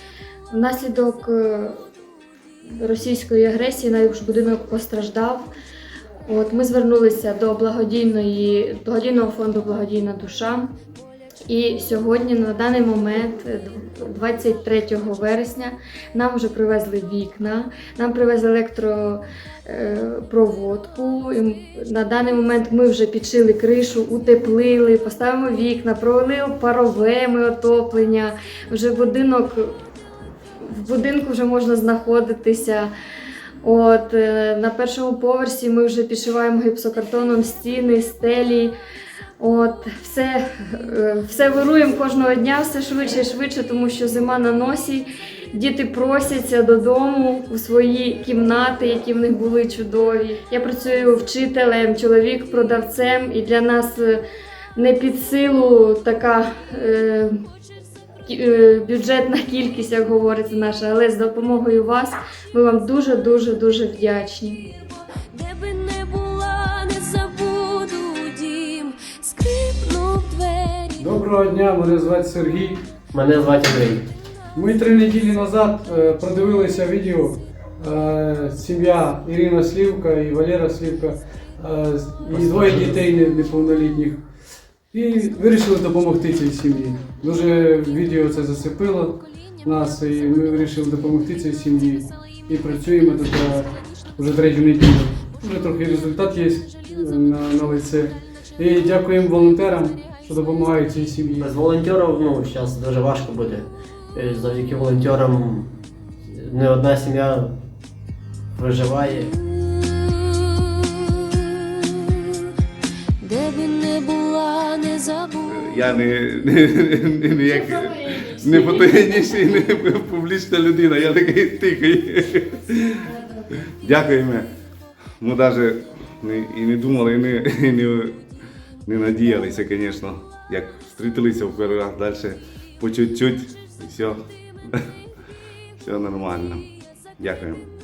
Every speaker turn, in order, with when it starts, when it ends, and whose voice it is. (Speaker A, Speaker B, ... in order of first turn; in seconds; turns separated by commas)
Speaker A: 0.5-1.8, Speaker A: 2.7-5.5, Speaker A: 6.3-10.7, Speaker A: 11.5-29.7, Speaker A: 30.6-32.9, Speaker A: 33.6-38.7, Speaker A: 39.4-54.2, Speaker A: 54.8-57.4, Speaker A: 58.3-64.6, Speaker B: 65.3-71.1, Speaker C: 71.0-72.9, Speaker D: 73.1-74.1, Speaker C: 74.5-84.2, Speaker D: 82.3-83.1, Speaker C: 84.9-101.5, Speaker D: 101.4-105.7, Speaker D: 106.3-107.6, Speaker D: 108.5-109.3, Speaker B: 109.2-112.4, Speaker B: 113.2-116.0, Speaker E: 115.5-123.0, Speaker A: 117.4-119.2, Speaker A: 123.0-123.6, Speaker E: 123.7-124.5, Speaker E: 125.2-128.2, Speaker E: 128.8-134.8, Speaker E: 135.8-136.7, Speaker E: 137.2-137.7